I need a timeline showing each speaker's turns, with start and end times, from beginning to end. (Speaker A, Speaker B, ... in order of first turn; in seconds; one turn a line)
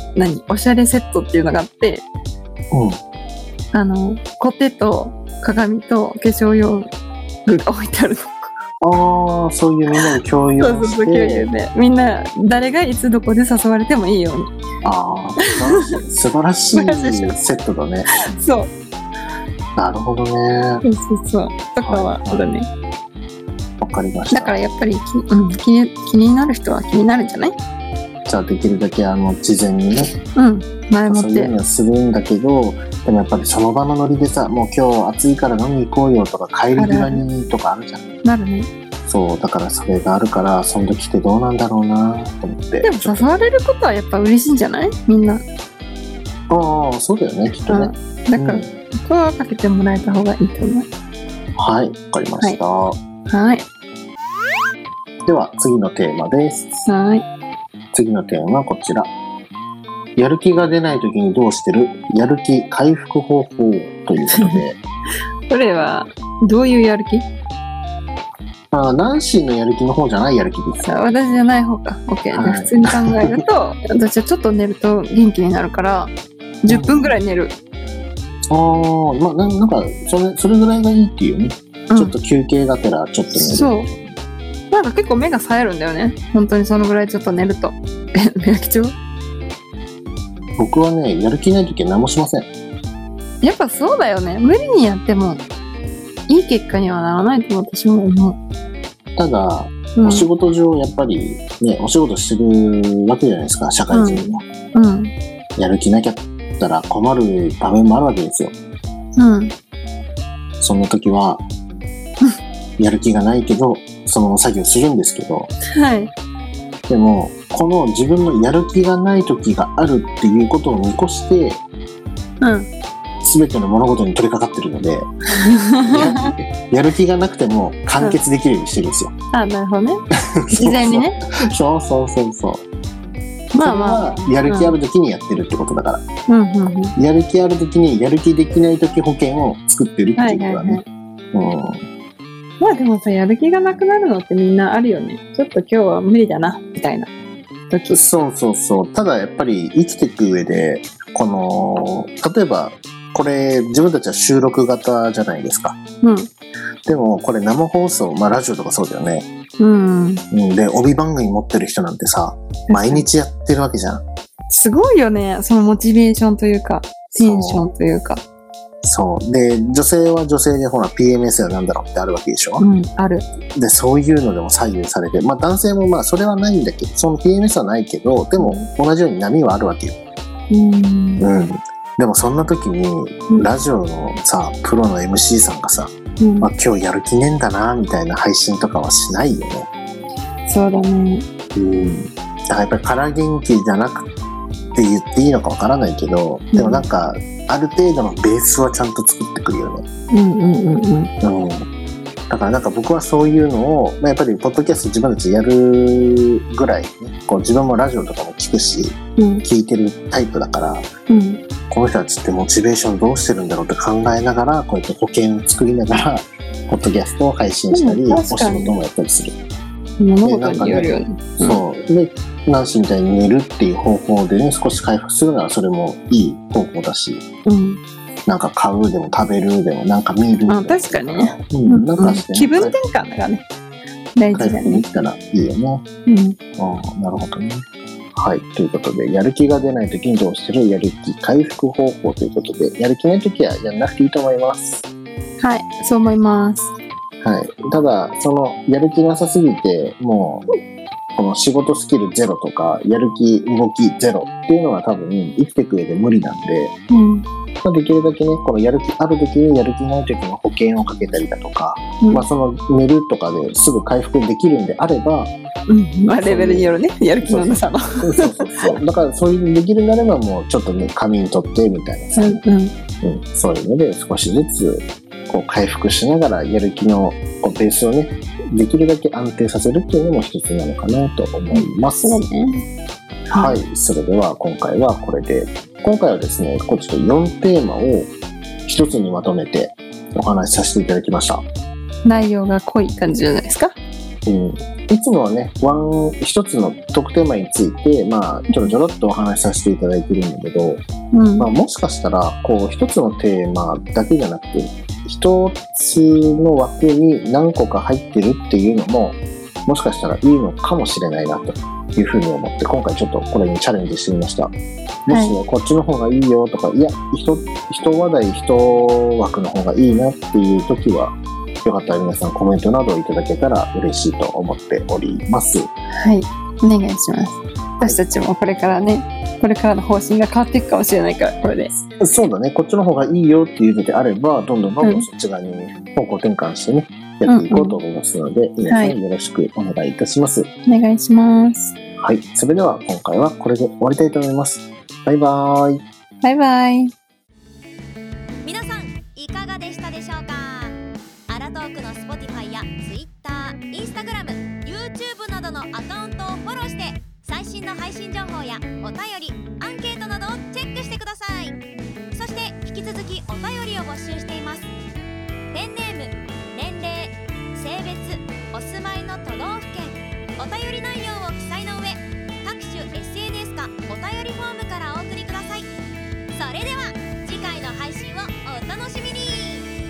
Speaker A: 0.1-2.0
Speaker B: 2.7-3.0
Speaker A: 3.7-6.9
Speaker A: 7.5-8.5
Speaker B: 8.8-11.5
Speaker A: 10.6-14.5
Speaker B: 14.8-18.3
Speaker A: 16.7-17.4
Speaker A: 18.3-18.7
Speaker B: 19.8-20.8
Speaker A: 20.8-22.7
Speaker B: 21.8-22.4
Speaker B: 23.8-24.6
Speaker A: 24.3-27.6
Speaker B: 28.2-30.1
Speaker A: 30.3-31.5
Speaker B: 31.1-38.1
Speaker A: 36.7-37.2
Speaker A: 38.2-38.7
Speaker B: 39.0-43.3
Speaker A: 42.8-45.4
Speaker B: 46.5-48.7
Speaker A: 47.7-50.9
Speaker B: 51.6-53.0
Speaker A: 53.3-53.6
Speaker B: 55.2-56.8
Speaker A: 56.8-57.2
Speaker B: 57.9-59.1
Speaker B: 60.1-64.8
Speaker A: 64.3-64.6
Speaker A: 65.5-67.2
Speaker B: 68.7-71.0
Speaker A: 70.8-77.5
Speaker B: 72.3-73.4
Speaker B: 76.7-77.0
Speaker B: 78.5-84.2
Speaker A: 81.9-82.1
Speaker A: 83.3-83.9
Speaker A: 84.7-89.0
Speaker B: 90.6-92.5
Speaker A: 93.4-95.4
Speaker A: 96.3-98.4
Speaker B: 99.2-104.4
Speaker A: 100.0-100.3
Speaker A: 103.9-105.1
Speaker B: 105.5-108.5
Speaker A: 109.2-109.5
Speaker B: 110.6-111.4
Speaker B: 112.8-115.5
Speaker A: 115.7-116.1
Speaker B: 116.9-121.6
Speaker A: 122.4-122.7
Speaker B: 123.2-125.1
Speaker A: 125.4-126.3
Speaker B: 125.8-129.1
Speaker A: 129.3-131.2
Speaker B: 130.3-132.6
Speaker A: 133.5-134.7
Speaker B: 133.6-136.1
Speaker A: 136.3-136.9
Speaker B: 136.9-140.8
Speaker A: 140.2-140.8
Speaker B: 141.3-141.8
Speaker A: 142.6-147.1
Speaker A: 147.7-148.0
Speaker B: 147.9-155.8
Speaker A: 156.0-156.3
Speaker B: 156.8-159.3
Speaker A: 159.6-160.2
Speaker B: 160.3-164.0
Speaker A: 162.7-163.1
Speaker A: 164.5-168.2
Speaker B: 167.1-167.7
Speaker B: 168.8-172.6
Speaker A: 172.6-173.2
Speaker B: 173.5-179.9
Speaker A: 178.4-178.7
Speaker A: 180.5-181.2
Speaker B: 181.2-189.7
Speaker A: 186.2-186.5
Speaker A: 190.4-191.2
Speaker B: 191.5-194.1
Speaker B: 194.7-199.8
Speaker A: 196.5-196.9
Speaker A: 200.1-201.1
Speaker B: 201.2-201.7
Speaker B: 202.3-210.9
Speaker A: 209.2-209.4
Speaker A: 211.1-211.4
Speaker B: 211.7-219.3
Speaker A: 217.7-218.7
Speaker A: 220.0-221.6
Speaker B: 220.2-227.2
Speaker A: 227.4-227.8
Speaker B: 228.2-232.7
Speaker A: 230.5-233.4
Speaker A: 234.2-234.9
Speaker B: 234.3-235.8
Speaker A: 236.1-236.4
Speaker B: 236.6-244.8
Speaker A: 245.4-246.7
Speaker B: 247.2-250.4
Speaker B: 251.2-256.7
Speaker A: 256.9-257.2
Speaker B: 257.6-265.3
Speaker A: 262.0-262.3
Speaker A: 265.7-268.8
Speaker B: 266.2-272.4
Speaker A: 272.2-272.7
Speaker B: 273.0-282.2
Speaker A: 281.5-282.6
Speaker A: 283.3-283.6
Speaker B: 283.3-288.1
Speaker B: 288.6-291.4
Speaker A: 292.1-293.8
Speaker B: 294.2-300.8
Speaker A: 301.1-301.5
Speaker B: 301.4-314.5
Speaker B: 315.1-325.7
Speaker A: 315.1-315.4
Speaker A: 326.0-331.8
Speaker B: 332.0-340.5
Speaker A: 334.8-335.1
Speaker A: 337.2-337.8
Speaker A: 338.7-338.9
Speaker A: 340.6-341.7
Speaker B: 342.0-345.8
Speaker A: 346.2-346.9
Speaker C: 348.4-350.8
Speaker C: 351.3-361.6
Speaker C: 362.1-364.7
Speaker C: 365.5-375.7
Speaker C: 376.3-379.6